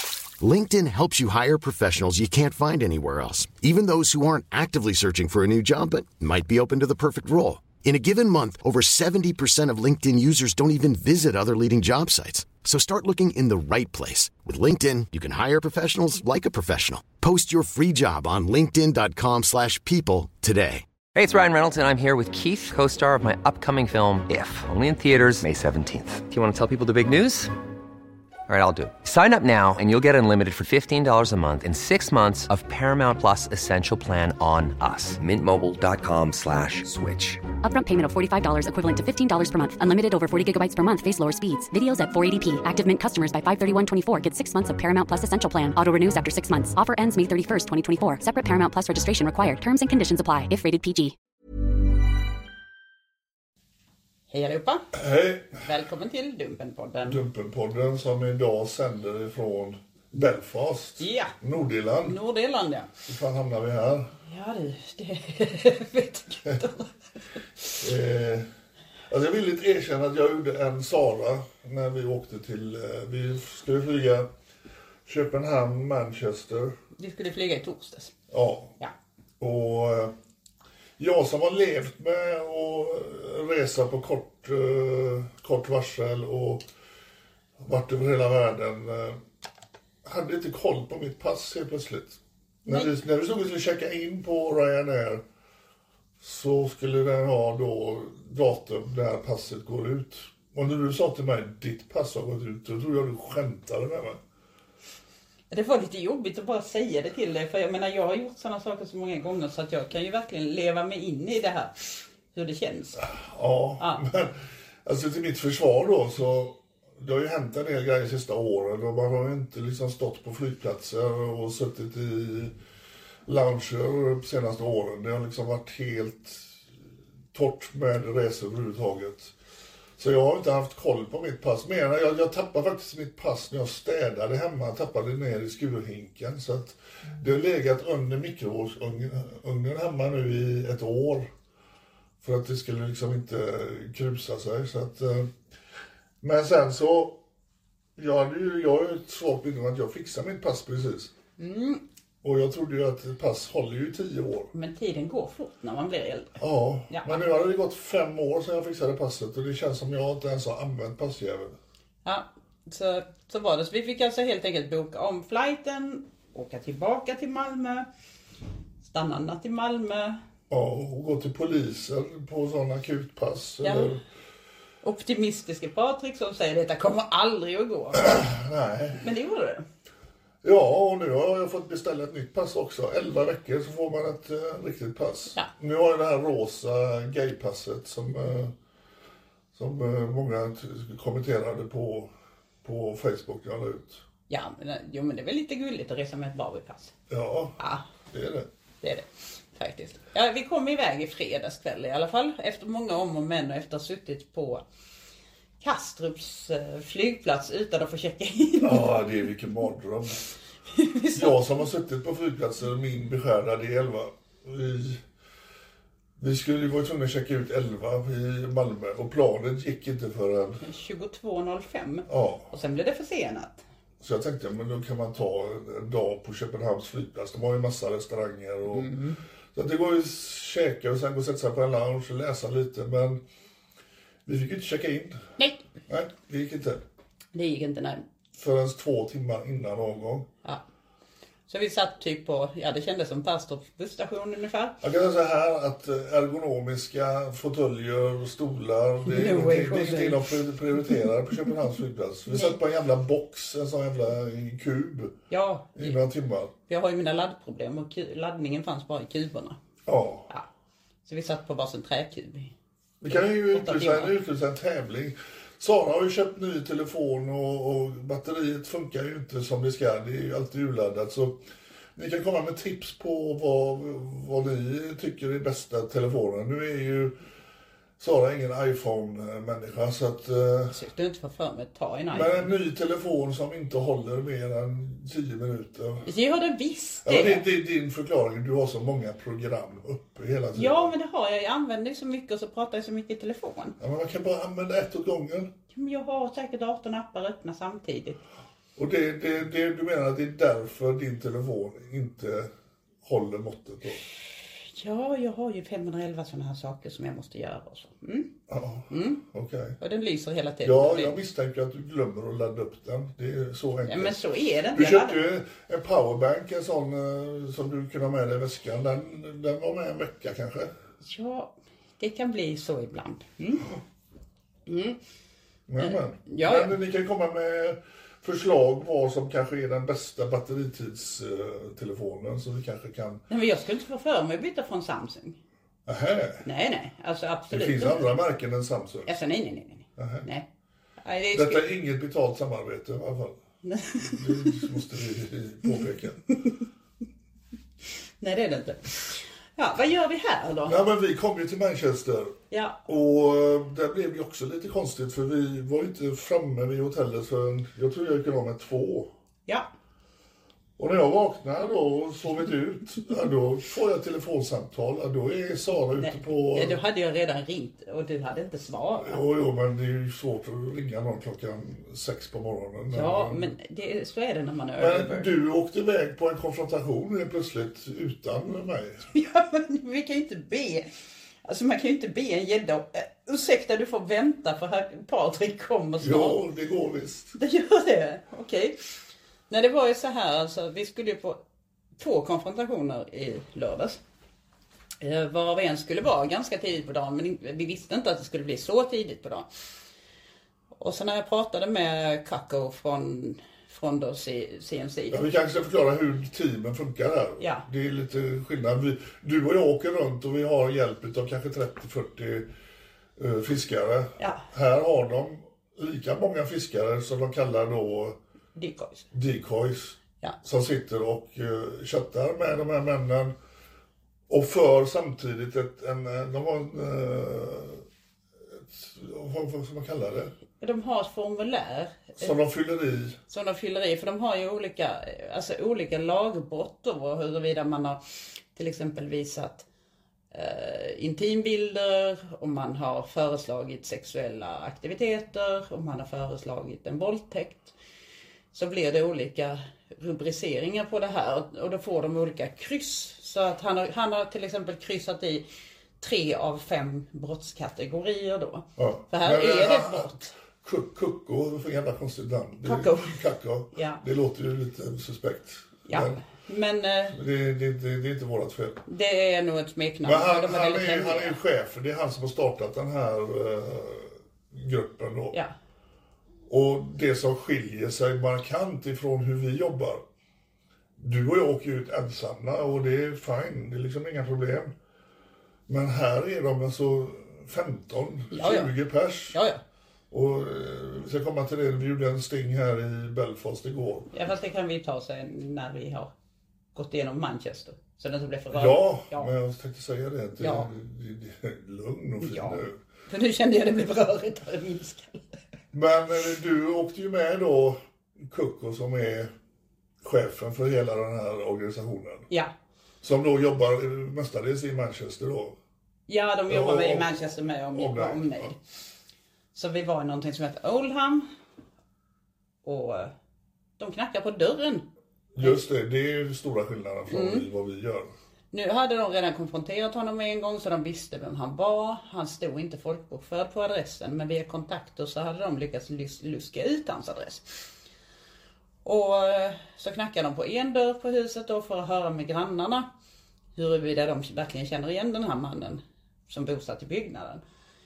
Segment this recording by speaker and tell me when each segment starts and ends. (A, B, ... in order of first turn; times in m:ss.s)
0:00.4-0:20.8 A
0:21.1-0:27.5 B
0:28.5-0:37.4 B
0:37.6-0:51.1 C
0:54.3-0:54.9 D
0:54.9-0:55.6 E
0:55.6-0:57.2 D
0:57.0-1:02.2 E
1:01.0-1:01.3 D
1:02.0-1:02.9 D
1:03.0-1:04.1 E
1:04.2-1:06.9 D
1:07.8-1:08.5 E
1:09.1-1:14.3 E
1:15.0-1:16.7 E
1:17.0-1:18.1 D
1:18.3-1:18.7 E
1:19.4-1:20.1 E
1:21.0-1:26.6 E
1:27.6-1:29.2 E
1:30.0-1:35.2 E
1:32.6-1:32.9 D
1:36.2-1:44.2 E
1:45.5-1:53.1 D
1:53.0-2:02.5 E
1:53.8-1:54.0 D
2:03.2-2:06.6 E
2:07.3-2:09.3 E
2:10.0-2:21.3 E
2:22.2-2:25.3 E
2:26.2-2:27.2 E
2:28.0-2:31.1 E
2:31.4-2:31.8 D
2:32.2-2:34.5 E
2:34.5-2:36.4 D
2:36.4-2:41.6 E
2:36.9-2:37.2 D
2:42.0-2:47.9 D
2:48.8-2:50.2 D
2:50.5-2:54.0 E
2:53.6-2:53.9 D
2:54.8-2:58.2 D
2:57.9-2:59.0 E
2:59.0-2:59.6 D
3:00.4-3:08.5 E
3:09.5-3:12.1 E
3:12.6-3:14.0 E
3:14.3-3:16.9 D
3:17.1-3:17.6 E
3:17.6-3:17.8 D
3:18.1-3:18.5 E
3:18.8-3:24.6 D
3:25.6-3:29.0 D
3:28.6-3:30.2 E
3:30.7-3:31.4 D
3:31.1-3:35.0 E
3:36.2-3:40.6 E
3:40.6-3:43.6 D
3:42.1-3:42.5 E
3:44.0-3:48.9 E
3:48.7-3:49.2 D
3:49.5-3:53.2 E
3:54.2-3:55.2 E
3:55.4-3:55.6 D
3:55.9-3:56.8 E
3:57.3-3:58.0 D
3:58.3-4:00.3 E
4:01.5-4:04.8 D
4:04.8-4:15.2 E
4:09.0-4:10.3 D
4:12.3-4:12.6 D
4:15.3-4:16.0 D
4:15.8-4:16.5 E
4:16.7-4:19.6 D
4:19.8-4:20.3 E
4:21.0-4:22.5 D
4:23.0-4:31.4 E
4:23.1-4:24.1 D
4:32.0-4:37.2 E
4:38.0-4:40.7 E
4:40.7-4:42.5 D
4:42.1-4:46.0 E
4:46.0-4:47.4 D
4:47.0-4:50.9 E
4:50.5-4:53.8 D
4:53.8-4:55.5 E
4:55.7-4:58.2 D
4:58.8-5:02.5 E
5:03.0-5:04.0 E
5:04.7-5:08.3 D
5:08.5-5:09.8 E
5:08.9-5:09.2 D
5:09.8-5:11.2 D
5:10.6-5:14.2 E
5:13.8-5:15.2 D
5:14.7-5:20.7 E
5:21.0-5:23.7 D
5:24.7-5:25.0 D
5:25.7-5:33.2 E
5:25.8-5:26.7 D
5:33.3-5:35.4 D
5:35.8-5:36.4 E
5:36.4-5:38.1 D
5:37.5-5:39.1 E
5:39.0-5:40.5 D
5:40.0-5:40.2 E
5:41.0-5:41.7 D
5:41.3-5:43.4 E
5:43.6-5:44.7 D
5:44.0-5:46.2 E
5:48.2-5:50.8 D
5:50.6-5:59.1 E
5:52.5-5:52.8 D
6:00.8-6:06.8 E
6:06.0-6:09.2 D
6:09.0-6:13.5 E
6:12.9-6:15.3 D
6:14.8-6:19.0 E
6:19.1-6:20.9 D
6:21.4-6:26.4 D
6:26.0-6:27.4 E
6:27.4-6:28.8 D
6:29.5-6:31.4 D
6:32.0-6:34.0 D
6:35.0-6:39.5 D
6:40.8-6:45.2 D
6:45.1-6:52.5 E
6:47.4-6:47.6 D
6:53.2-6:58.2 E
6:54.2-6:54.4 D
6:58.6-6:59.1 D
6:59.1-7:03.3 E
7:04.3-7:07.8 E
7:08.6-7:10.3 E
7:10.6-7:12.3 D
7:12.2-7:13.2 E
7:13.3-7:18.0 D
7:18.5-7:19.6 D
7:20.3-7:27.7 D
7:28.5-7:35.4 D
7:36.0-7:40.3 D
7:38.8-7:46.2 E
7:42.6-7:43.2 D
7:43.7-7:44.0 D
7:45.9-7:47.2 D
7:47.1-7:48.8 E
7:48.8-7:51.4 D
7:50.0-7:55.4 E
7:56.5-8:00.0 E
8:01.0-8:04.7 E
8:05.7-8:09.4 E
8:08.3-8:08.7 D
8:09.3-8:09.6 D
8:10.1-8:14.1 E
8:14.1-8:16.1 D
8:16.7-8:19.3 D
8:18.5-8:22.8 E
8:20.4-8:20.7 D
8:22.2-8:25.4 D
8:25.7-8:29.3 E
8:30.0-8:32.3 E
8:33.0-8:35.6 E
8:36.1-8:38.6 D
8:36.5-8:37.1 E
8:37.7-8:38.5 E
8:39.5-8:41.3 D
8:42.6-8:43.1 D
8:43.8-8:44.8 D
8:45.3-8:48.1 E
8:47.1-8:47.5 D
8:48.5-8:57.4 D
8:58.8-9:02.9 D
9:03.6-9:07.4 D